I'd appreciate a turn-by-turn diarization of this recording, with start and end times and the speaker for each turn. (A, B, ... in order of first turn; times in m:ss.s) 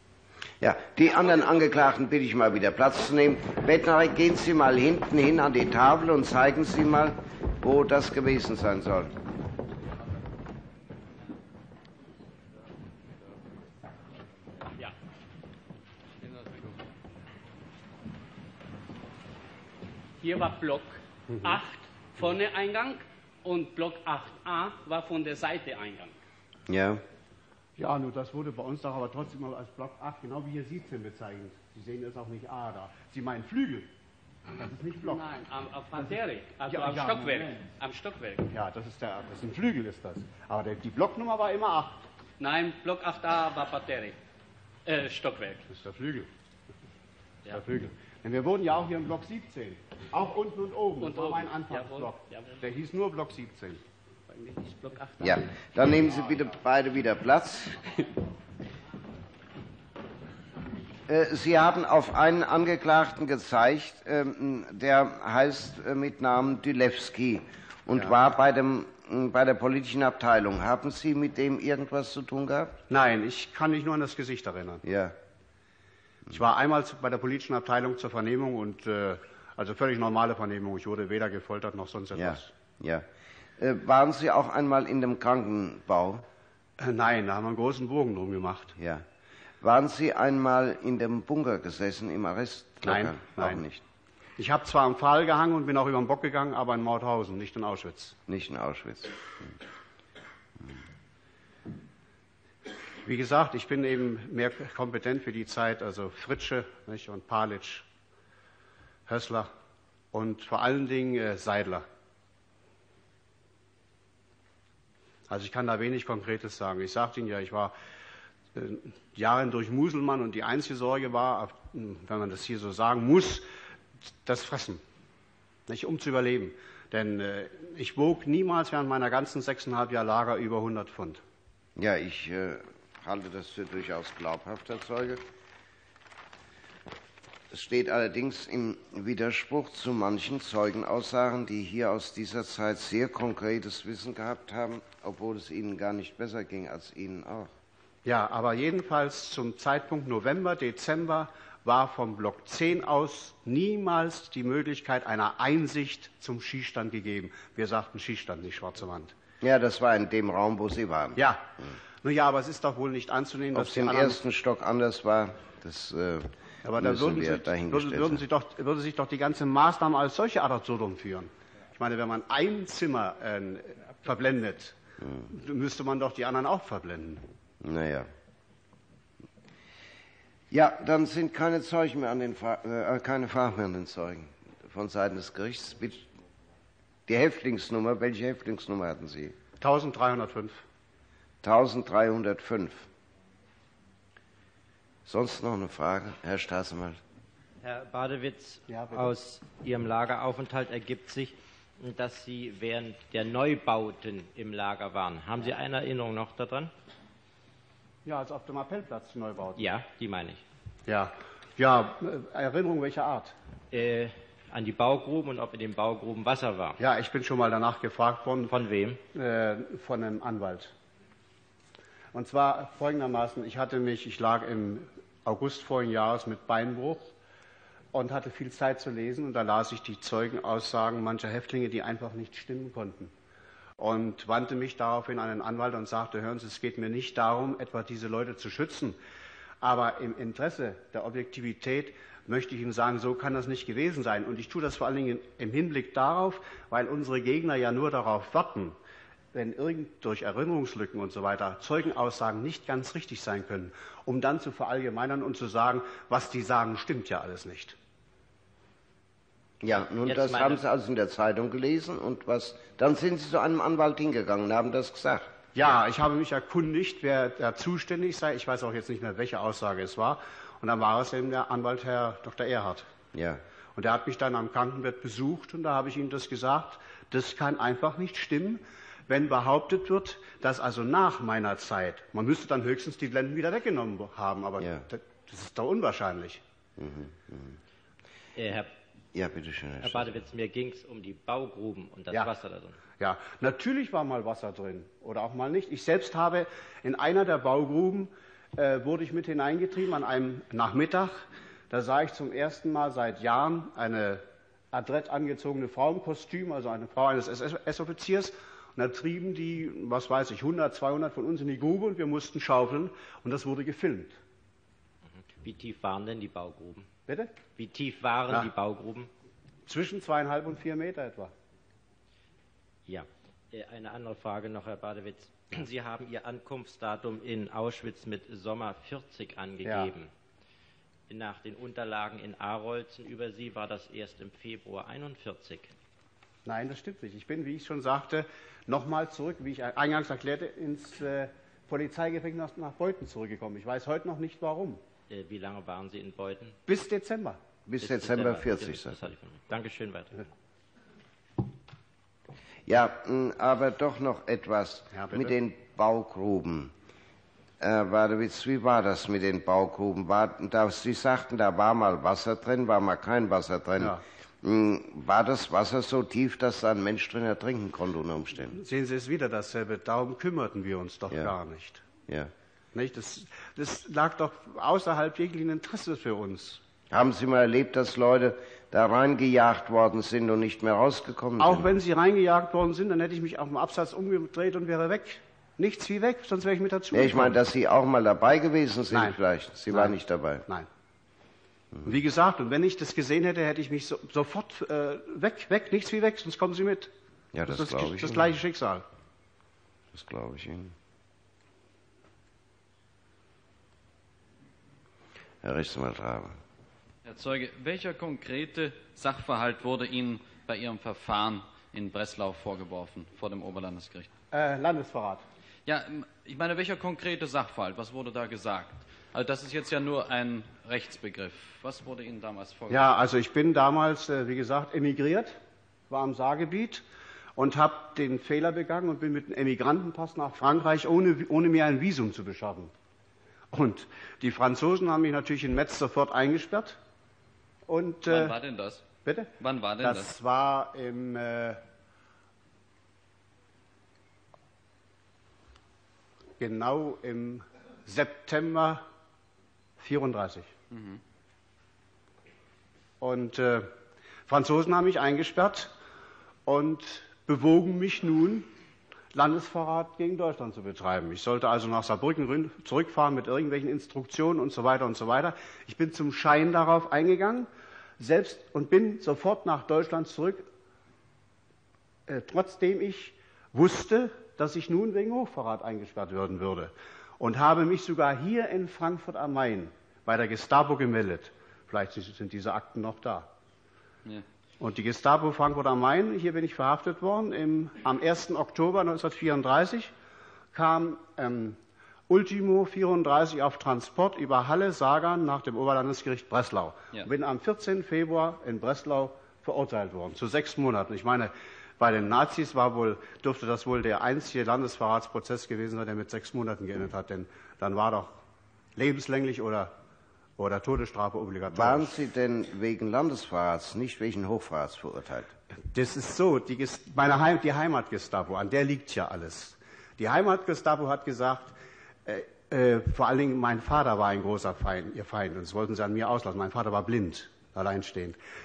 0:00.6-0:09.1 A
0:16.2-0:16.8 B
0:20.2-0:26.2 B
0:21.3-0:21.6 C
0:26.7-0:27.0 A
0:27.8-0:33.9 C
0:34.6-0:35.3 C
0:35.0-0:38.5 B
0:36.7-0:37.6 C
0:38.5-0:42.0 C
0:42.4-0:44.2 B
0:44.8-0:45.7 B
0:45.7-0:46.3 C
0:47.5-0:53.8 C
0:51.0-0:52.5 B
0:54.3-0:55.8 B
0:55.2-0:57.9 A
1:01.1-1:12.8 A
1:12.9-1:14.8 C
1:14.8-1:15.2 A
1:16.3-1:22.5 C
1:22.1-1:23.1 A
1:23.6-1:26.2 A
1:26.8-1:28.7 C
1:28.8-1:29.0 A
1:29.6-1:33.8 A
1:32.8-1:33.6 C
1:34.4-1:38.2 C
1:38.3-1:39.6 A
1:43.0-1:47.9 C
1:49.1-1:49.5 C
1:50.1-1:51.8 C
1:55.3-1:57.7 C
1:58.5-2:03.5 C
2:04.2-2:04.8 C
2:05.7-2:11.2 C
2:11.8-2:15.2 A
2:17.5-2:27.5 A
2:28.0-2:39.1 C
2:39.4-2:41.7 A
2:41.2-2:41.5 C
2:42.0-2:44.2 C
2:43.5-2:48.2 A
2:46.6-2:57.2 C
2:57.6-2:58.1 A
3:00.5-3:06.1 A
3:07.1-3:09.4 A
3:09.6-3:10.6 C
3:11.4-3:12.9 A
3:15.0-3:17.0 A
3:17.6-3:26.7 D
3:18.7-3:19.1 C
3:28.0-3:29.7 C
3:29.6-3:30.4 D
3:30.9-3:33.3 C
3:33.7-3:36.8 D
3:36.8-3:38.5 C
3:38.5-3:39.0 D
3:39.1-3:40.7 C
3:42.1-3:47.1 C
3:47.9-3:53.1 C
3:53.8-3:59.0 C
3:59.6-4:08.8 C
4:09.3-4:17.8 C
4:19.6-4:25.3 A
4:20.0-4:20.6 D
4:25.5-4:32.9 C
4:33.1-4:33.4 A
4:33.8-4:46.4 C
4:44.6-4:44.8 A
4:46.8-4:47.6 A
4:48.4-4:48.7 D
4:49.1-4:50.2 A
4:49.8-4:52.8 D
4:53.0-5:14.2 C
5:15.1-5:16.9 D
5:17.1-5:17.3 C
5:17.5-5:19.1 D
5:19.7-5:21.3 C
5:22.9-5:30.1 D
5:29.6-5:29.9 C
5:31.1-5:35.7 D
5:36.4-5:44.8 C
5:45.1-5:46.6 D
5:46.7-5:47.4 C
5:47.7-5:49.0 A
5:47.8-5:50.3 D
5:52.6-5:56.7 A
5:54.9-5:55.3 C
5:57.6-6:08.6 A
6:08.5-6:11.8 C
6:12.1-6:12.3 A
6:12.7-6:16.6 C
6:16.9-6:21.7 A
6:21.4-6:27.4 C
6:26.9-6:30.4 A
6:29.7-6:29.9 C
6:31.8-6:36.9 C
6:37.3-6:38.3 A
6:37.5-6:38.8 C
6:39.9-6:40.7 A
6:45.4-6:46.4 A
6:47.0-6:54.1 E
6:54.3-6:55.2 C
6:55.6-7:02.8 E
7:02.7-7:05.4 C
7:05.9-7:06.8 C
7:07.4-7:12.7 C
7:13.5-7:16.8 C
7:17.7-7:18.4 C
7:18.1-7:18.8 E
7:19.0-7:21.6 C
7:19.4-7:20.1 E
7:26.4-7:28.8 C
7:29.8-7:30.5 C
7:30.7-7:31.0 E
7:33.0-7:33.7 C
7:34.3-7:35.7 C
7:36.4-7:38.5 C
7:39.1-7:47.5 C
7:48.0-7:50.4 C
7:52.1-8:03.3 C
8:04.6-8:09.9 C
8:10.5-8:11.6 C
8:12.1-8:28.2 C
8:28.8-8:29.7 C
8:30.4-8:31.9 C
8:31.5-8:35.3 A
8:35.7-8:41.5 C
8:42.0-8:48.2 C